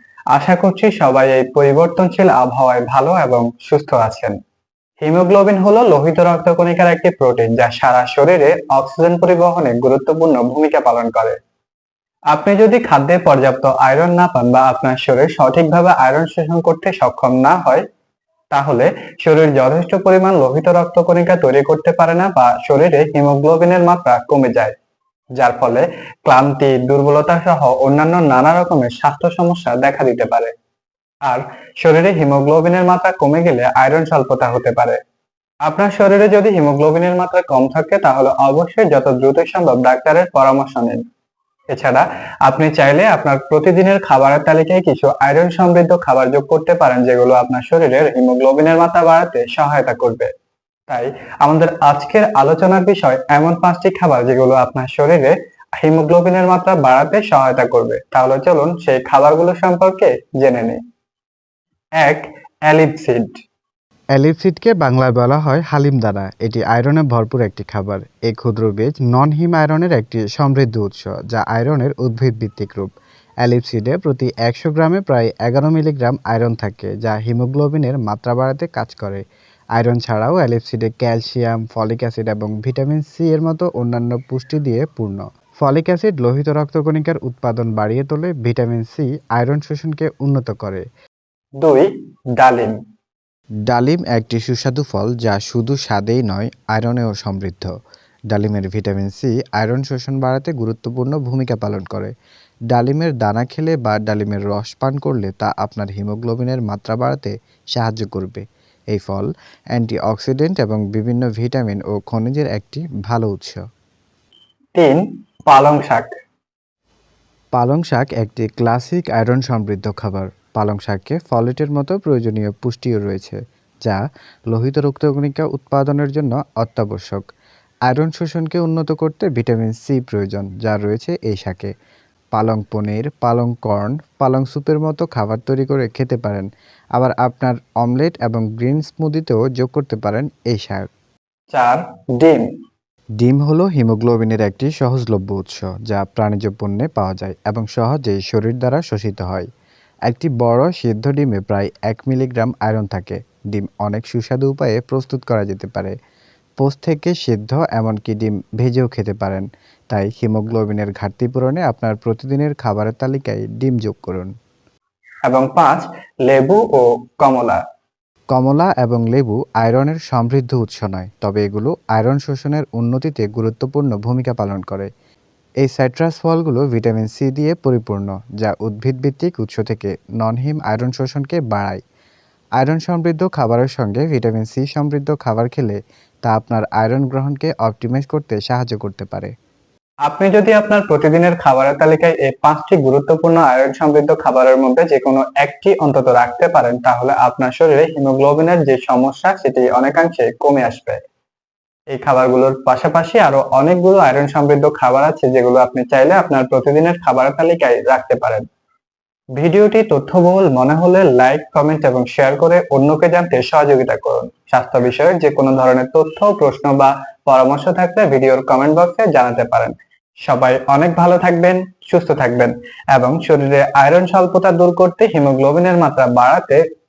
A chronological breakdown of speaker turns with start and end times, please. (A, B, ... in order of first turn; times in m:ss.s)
0:00.3-0:04.4 A
0:05.0-0:11.4 A
0:12.3-0:17.8 A
0:18.5-0:24.7 A
0:25.4-0:30.5 A
0:31.3-0:35.0 A
0:35.7-0:41.0 A
0:41.7-0:50.3 A
0:50.9-1:00.8 A
1:02.0-1:03.4 A
1:04.1-1:19.2 B
1:19.8-1:30.8 B
1:31.6-1:32.8 A
1:33.7-1:37.7 B
1:38.3-1:42.1 B
1:42.7-1:53.6 B
1:54.8-1:56.1 A
1:57.6-2:07.2 B
2:07.9-2:11.7 B
2:12.3-2:20.9 B
2:21.5-2:22.5 A
2:23.2-2:29.5 B
2:30.1-2:35.9 B
2:36.6-2:44.3 B
2:45.3-2:47.6 A
2:48.3-2:54.9 B
2:55.6-3:01.8 B
3:02.6-3:09.3 B
3:10.1-3:21.0 A
3:21.9-3:28.4 A
3:29.4-3:39.7 A
3:40.2-3:46.6 A